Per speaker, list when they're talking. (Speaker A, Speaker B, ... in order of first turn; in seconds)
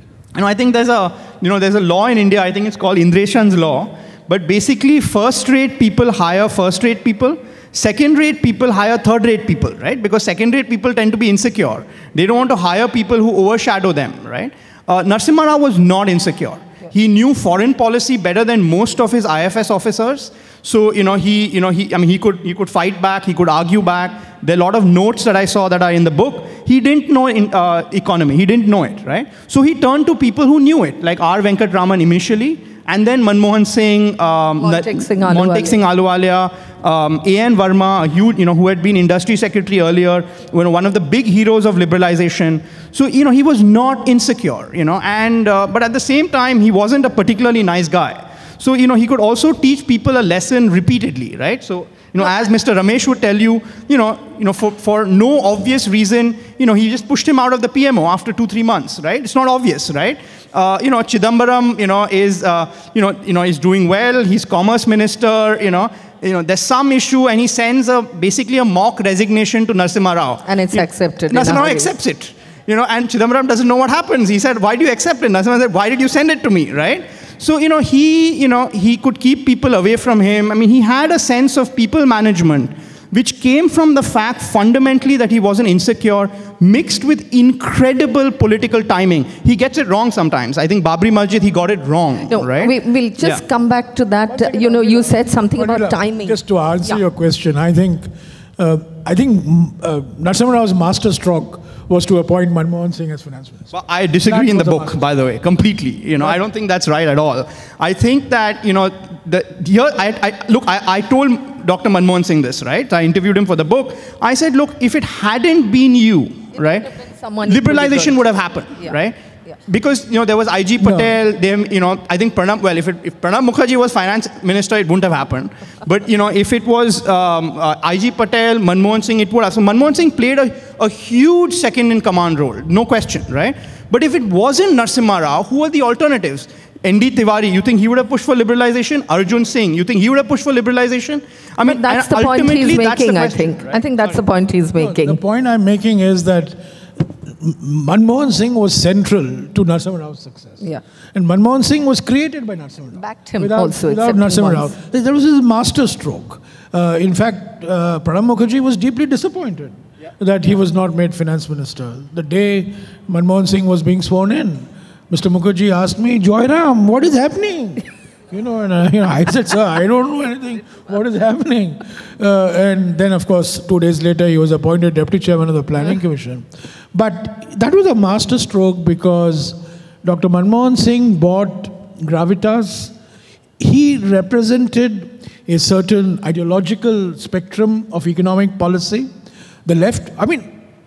Speaker A: 0.3-93.4, 103.7-116.9, 117.5-119.2, 119.7-143.8
Speaker B: 34.6-35.8, 70.5-71.9, 92.3-97.0, 116.6-118.2, 141.6-145.2, 152.9-154.7
Speaker C: 94.3-103.7, 104.2-105.0, 120.8-121.2, 144.8-182.9, 183.6-189.1, 189.7-190.5